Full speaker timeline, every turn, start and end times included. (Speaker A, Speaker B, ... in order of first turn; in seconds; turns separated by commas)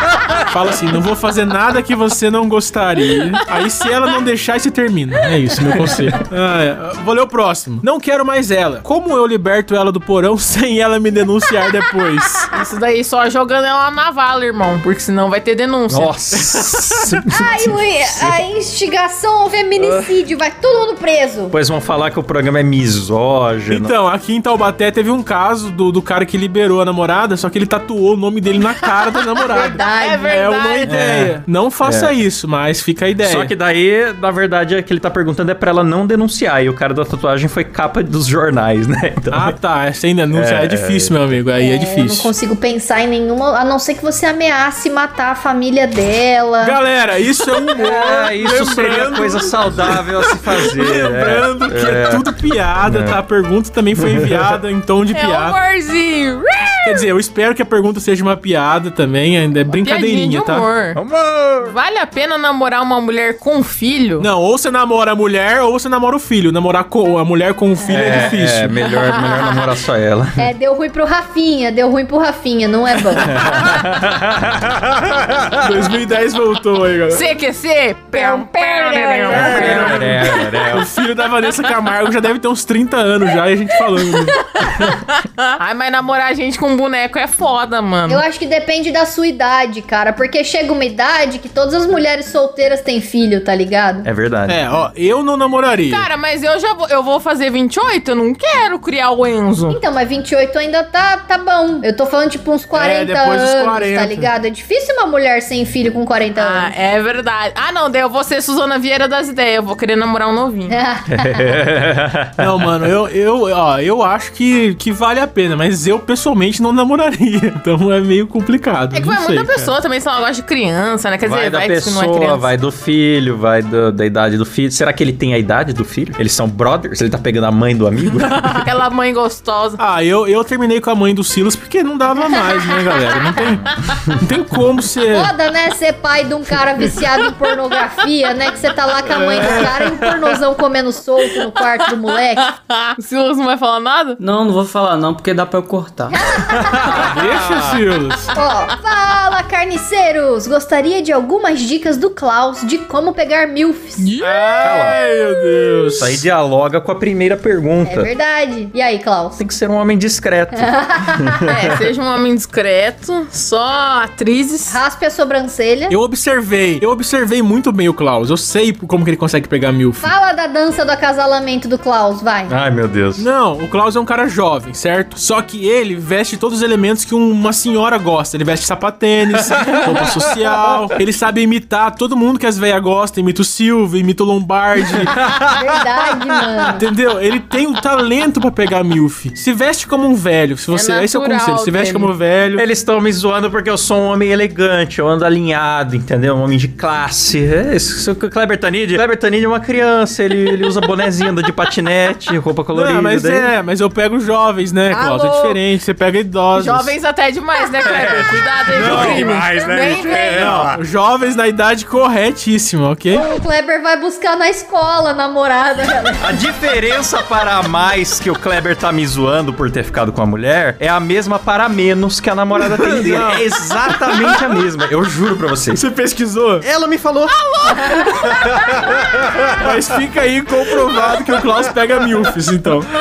Speaker A: 0.5-12.5, Speaker B: 5.9-6.2, Speaker C: 12.5-16.1, Speaker B: 15.9-18.4, Speaker A: 16.4-17.2, Speaker D: 17.3-21.5, Speaker B: 19.8-20.1, Speaker B: 21.5-23.9, Speaker A: 23.7-33.5, Speaker C: 29.4-30.9, Speaker D: 29.5-30.6, Speaker B: 30.9-32.1, Speaker B: 33.2-39.5, Speaker A: 39.3-42.3, Speaker B: 40.3-41.4, Speaker D: 41.5-46.8, Speaker A: 46.6-55.6, Speaker B: 47.8-52.3, Speaker B: 52.8-53.2, Speaker B: 54.0-54.5, Speaker C: 55.1-57.1, Speaker A: 56.9-60.7, Speaker C: 59.7-61.0, Speaker B: 61.0-61.8, Speaker C: 61.6-64.3, Speaker A: 64.2-68.7, Speaker B: 67.9-70.5, Speaker C: 68.9-69.7, Speaker D: 70.4-73.3, Speaker B: 73.3-75.7, Speaker A: 75.6-77.2, Speaker C: 77.1-80.0, Speaker D: 78.1-80.3, Speaker B: 79.3-80.9, Speaker A: 79.3-84.5, Speaker C: 84.8-88.2, Speaker D: 88.1-94.1, Speaker B: 94.0-94.6, Speaker A: 94.5-96.1, Speaker C: 95.9-99.8, Speaker D: 99.7-106.7, Speaker A: 102.7-104.3, Speaker C: 106.4-110.8, Speaker D: 110.7-111.5, Speaker B: 111.1-112.7, Speaker A: 112.4-119.7, Speaker C: 118.9-122.5, Speaker B: 121.2-128.6, Speaker C: 128.4-129.8, Speaker A: 129.8-133.6, Speaker C: 132.3-134.0, Speaker B: 133.6-134.2, Speaker A: 134.2-135.3, Speaker D: 135.1-142.5, Speaker A: 139.1-139.7, Speaker C: 142.5-144.2, Speaker E: 144.2-146.2, Speaker D: 146.2-147.1, Speaker B: 146.6-147.8, Speaker A: 146.9-148.3, Speaker D: 148.3-154.1, Speaker C: 154.0-155.2, Speaker A: 154.2-156.2, Speaker B: 154.6-155.0, Speaker B: 156.0-158.1, Speaker D: 157.8-159.4, Speaker B: 159.4-161.6, Speaker D: 160.6-161.5, Speaker C: 161.5-164.8, Speaker D: 164.7-166.0, Speaker A: 165.9-170.1, Speaker D: 170.0-172.5, Speaker B: 172.5-173.2, Speaker A: 173.2-185.1, Speaker B: 179.4-180.9, Speaker B: 185.0-186.7, Speaker D: 185.5-186.8, Speaker A: 186.8-192.6, Speaker C: 190.7-192.1, Speaker B: 192.6-203.5, Speaker A: 202.7-206.9, Speaker C: 204.9-205.6, Speaker C: 206.6-210.5, Speaker B: 207.8-210.8, Speaker A: 208.7-209.5, Speaker A: 210.3-213.2, Speaker D: 213.1-216.3, Speaker B: 216.2-225.8, Speaker A: 222.6-224.4, Speaker A: 225.8-226.7, Speaker B: 226.6-229.8, Speaker A: 229.6-232.9, Speaker B: 231.1-231.7